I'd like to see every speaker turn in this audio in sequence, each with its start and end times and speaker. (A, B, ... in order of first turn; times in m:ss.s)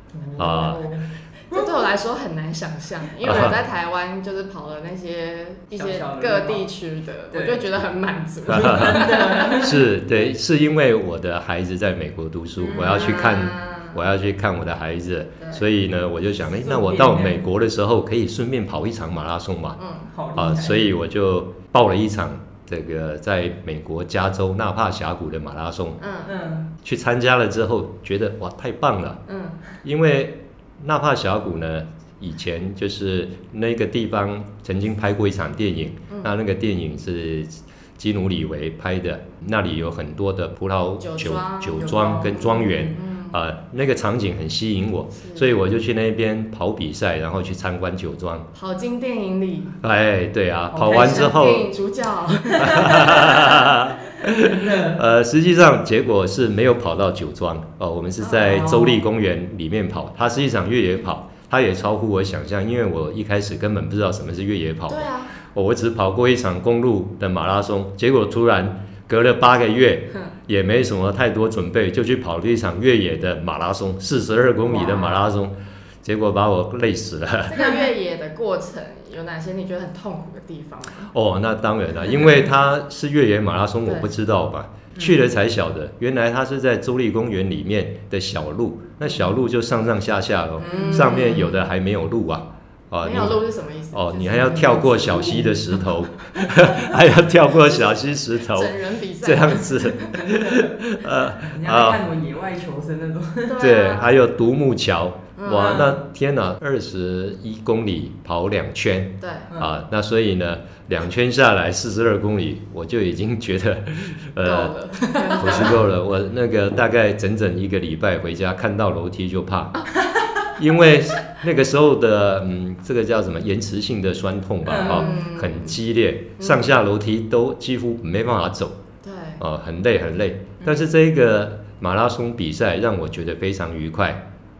0:00.1-0:01.8 A
0:00.4-0:00.9 B
0:01.5-0:09.6 C
0:03.2-0:03.5 B
0:05.8-0:06.7 A
0:07.3-0:07.8 A
0:08.5-0:09.0 B
0:08.5-0:09.9 A
0:09.6-0:19.8 B
0:12.6-0:13.3 A
0:12.7-0:14.1 C
0:15.4-0:15.6 C
0:16.4-0:17.4 A
0:19.8-0:20.1 C
0:20.1-0:20.9 A
0:20.3-0:26.0 B
0:26.0-0:26.3 C
0:26.2-0:26.7 A
0:26.8-0:29.2 B
0:29.3-0:29.6 C
0:29.8-0:48.5 B
0:41.0-0:43.4 C
0:41.8-0:43.0 A
0:45.2-0:45.5 C
0:48.5-0:49.8 C
0:49.8-0:51.7 B
0:50.7-0:51.3 A
0:50.9-0:53.6 C
0:52.6-1:17.6 B
0:54.2-0:55.0 A
0:58.2-0:59.0 A
1:04.9-1:05.3 C
1:14.7-1:15.3 C
1:17.5-1:21.1 C
1:21.1-1:42.0 B
1:23.8-1:24.1 C
1:24.9-1:25.3 A
1:30.6-1:31.6 C
1:30.6-1:31.4 A
1:33.0-1:34.6 C
1:34.1-1:36.0 A
1:38.4-1:40.1 C
1:40.1-1:43.6 A
1:43.5-1:44.2 C
1:43.6-1:54.8 B
1:45.4-1:45.8 C
1:45.5-1:46.0 A
1:49.2-1:49.5 C
1:54.4-1:55.8 C
1:55.2-1:55.8 A
1:55.4-1:59.8 B
2:00.6-2:08.8 B
2:04.6-2:05.2 A
2:04.8-2:05.8 C
2:06.4-2:06.8 C
2:09.0-2:09.4 C
2:09.4-2:14.2 B
2:10.6-2:10.9 A